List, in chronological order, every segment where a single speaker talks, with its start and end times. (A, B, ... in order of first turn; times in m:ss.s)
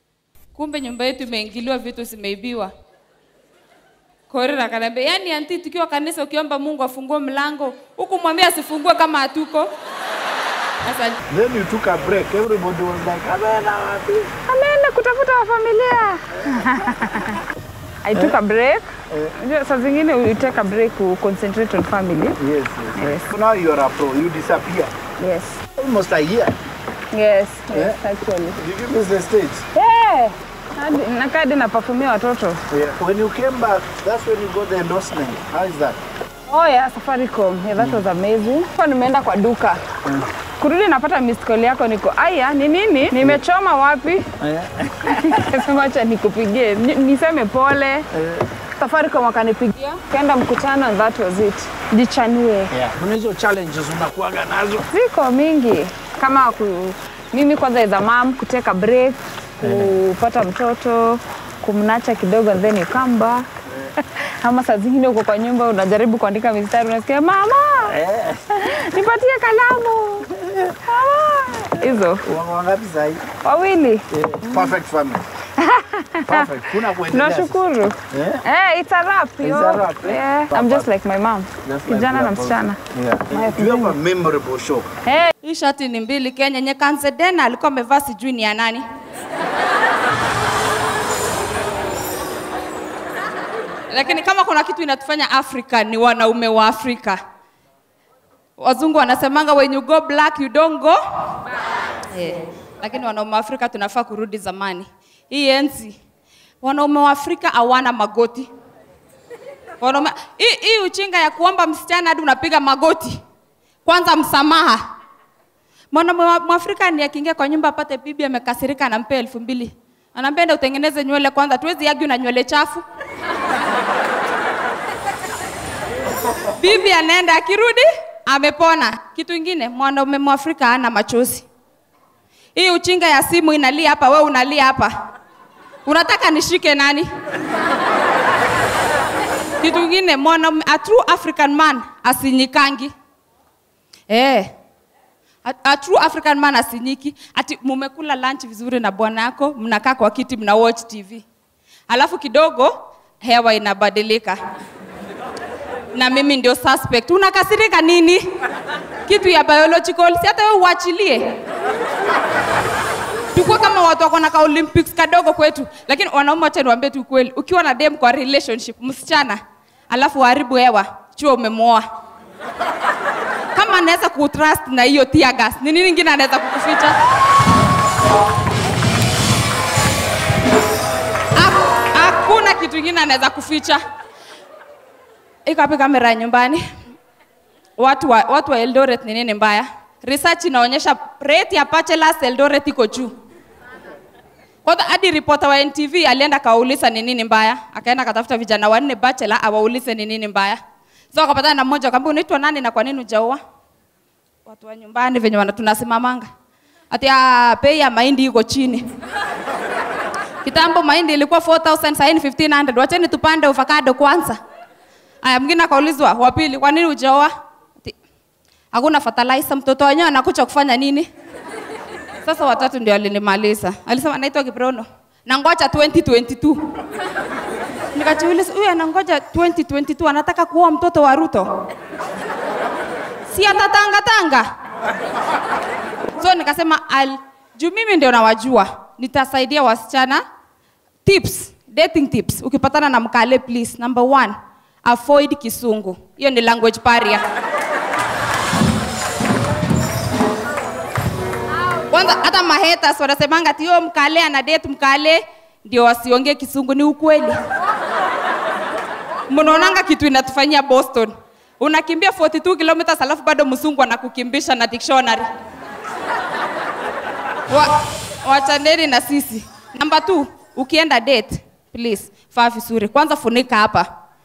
0:00.6-0:02.7 A
0:04.3-0:09.7 A
0:10.8-0:11.2 A
0:11.3-0:14.3 B
0:14.5-0:17.4 C
0:18.0-0:22.4 C
0:22.4-0:24.9 B
0:23.0-0:23.3 C
0:25.2-0:25.6 C
0:25.8-0:26.6 B
0:27.1-0:28.6 C
0:27.7-0:28.0 B
0:28.6-0:29.6 B
0:29.8-0:32.6 C
0:32.7-0:36.0 B
0:36.5-0:39.8 C
0:37.8-0:38.0 B
0:40.6-0:44.3 C
0:44.4-0:45.6 B
0:45.1-0:48.1 C
0:48.1-0:48.5 B
0:48.8-0:52.7 C
0:52.7-0:54.9 B
0:54.9-1:03.5 C
0:59.6-1:00.0 B
1:03.7-1:03.9 B
1:04.0-1:08.0 C
1:07.9-1:08.8 B
1:08.6-1:10.3 C
1:10.3-1:10.8 B
1:10.8-1:12.2 C
1:12.2-1:13.2 B
1:13.4-1:14.7 C
1:14.1-1:15.2 B
1:15.6-1:16.5 C
1:16.2-1:18.4 B
1:17.1-1:24.0 C
1:19.4-1:20.9 B
1:21.6-1:24.9 B
1:25.1-1:25.3 C
1:25.4-1:28.8 A
1:33.9-1:37.2 A
1:38.6-1:41.0 A
1:42.1-1:46.0 A
1:46.6-1:48.5 A
1:49.8-1:53.2 A
1:53.8-1:54.8 A
1:55.9-2:02.8 A
2:06.6-2:11.4 A
2:12.6-2:15.0 A
2:15.9-2:17.1 A
2:19.6-2:22.9 A
2:24.1-2:24.5 A
2:25.4-2:31.2 A
2:31.9-2:34.4 A
2:35.9-2:38.2 A
2:39.1-2:41.4 A
2:43.4-2:51.8 A
2:53.6-2:57.0 A
3:01.4-3:03.8 A
3:05.5-3:06.6 A
3:07.8-3:13.1 A
3:14.6-3:20.6 A
3:21.1-3:23.4 A
3:24.5-3:26.3 A
3:26.9-3:28.9 A
3:30.4-3:34.4 A
3:35.2-3:37.9 A
3:38.7-3:41.1 A
3:42.2-3:46.6 A
3:48.0-3:51.5 A
3:53.3-3:54.5 A
3:56.2-4:00.2 A
4:01.0-4:07.2 A
4:11.9-4:17.4 A
4:19.3-4:25.3 A
4:27.5-4:33.9 A